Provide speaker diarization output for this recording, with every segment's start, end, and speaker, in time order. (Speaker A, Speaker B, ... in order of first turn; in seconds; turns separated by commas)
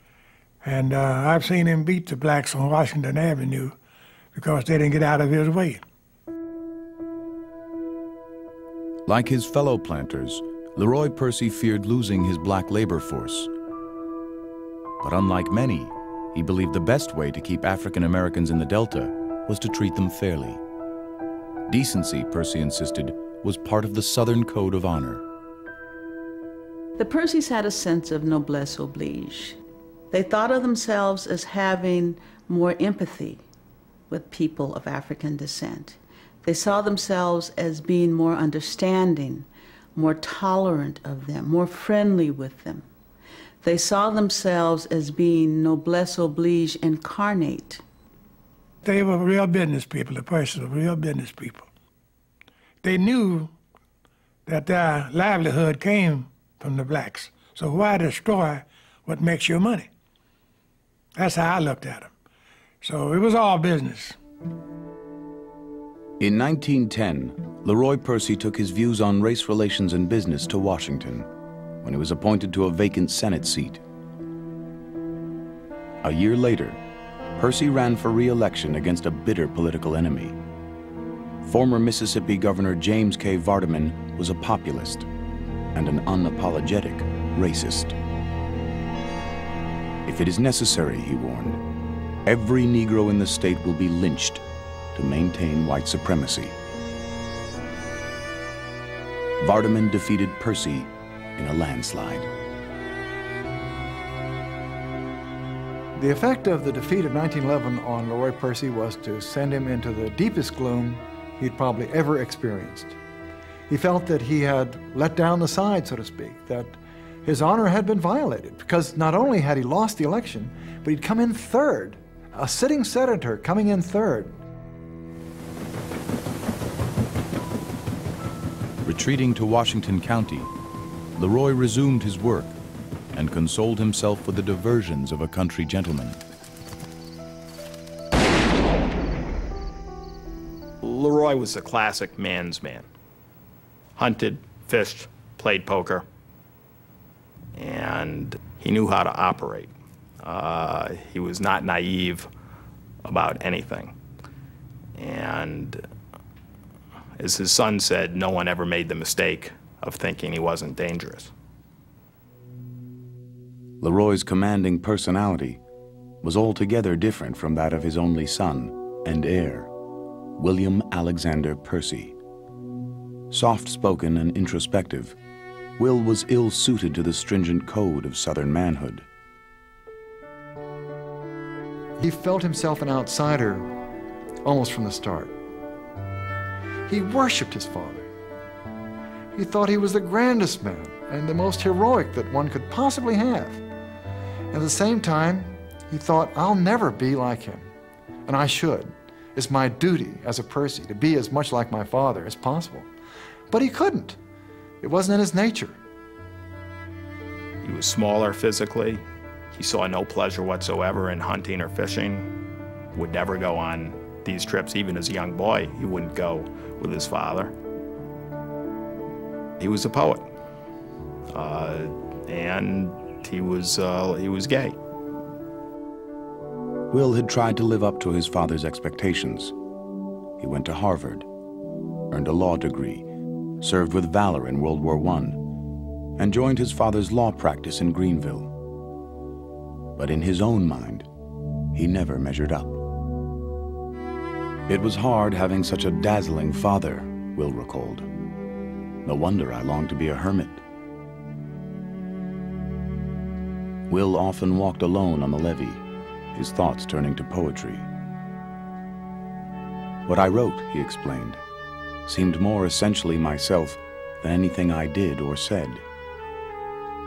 Speaker A: 0.6-3.8, Speaker A: 4.3-5.8, Speaker B: 9.1-13.5, Speaker B: 15.0-20.6, Speaker B: 21.7-25.2, Speaker C: 27.0-29.6, Speaker C: 30.1-33.4, Speaker C: 34.1-42.9, Speaker C: 43.6-47.8, Speaker A: 48.8-51.7, Speaker A: 52.8-53.5, Speaker A: 54.5-59.9, Speaker A: 61.1-62.1, Speaker A: 62.8-64.2, Speaker B: 66.2-71.3, Speaker B: 71.8-73.8, Speaker B: 76.0-76.8, Speaker B: 77.3-80.4, Speaker B: 81.4-85.1, Speaker B: 85.7-88.0, Speaker B: 90.0-91.6, Speaker B: 92.2-94.4, Speaker B: 94.9-96.6, Speaker B: 99.4-102.3, Speaker D: 106.0-113.0, Speaker D: 113.7-124.4, Speaker B: 128.8-130.5, Speaker B: 131.2-132.6, Speaker B: 133.1-136.2, Speaker E: 140.8-142.9, Speaker E: 144.0-146.1, Speaker E: 147.5-152.3, Speaker E: 153.0-153.9, Speaker E: 154.9-155.8, Speaker E: 157.2-161.3, Speaker B: 163.8-165.6, Speaker B: 166.2-169.7, Speaker B: 170.4-172.2, Speaker B: 173.3-175.2, Speaker B: 175.8-179.1, Speaker D: 182.0-183.7, Speaker D: 184.4-185.4, Speaker D: 186.9-188.1, Speaker D: 189.3-193.6, Speaker D: 194.5-197.7, Speaker D: 198.2-202.9, Speaker D: 203.5-204.2, Speaker D: 204.8-205.8, Speaker E: 207.6-212.3, Speaker E: 212.9-217.5, Speaker E: 219.6-220.3, Speaker E: 221.3-224.8, Speaker B: 226.9-229.5, Speaker B: 230.4-231.3, Speaker B: 232.1-235.6, Speaker B: 236.2-238.6, Speaker B: 239.9-241.1, Speaker B: 241.7-242.8, Speaker B: 244.7-248.1, Speaker B: 249.0-250.6, Speaker B: 253.9-255.8, Speaker B: 256.3-257.9, Speaker B: 260.1-261.4, Speaker B: 262.1-265.8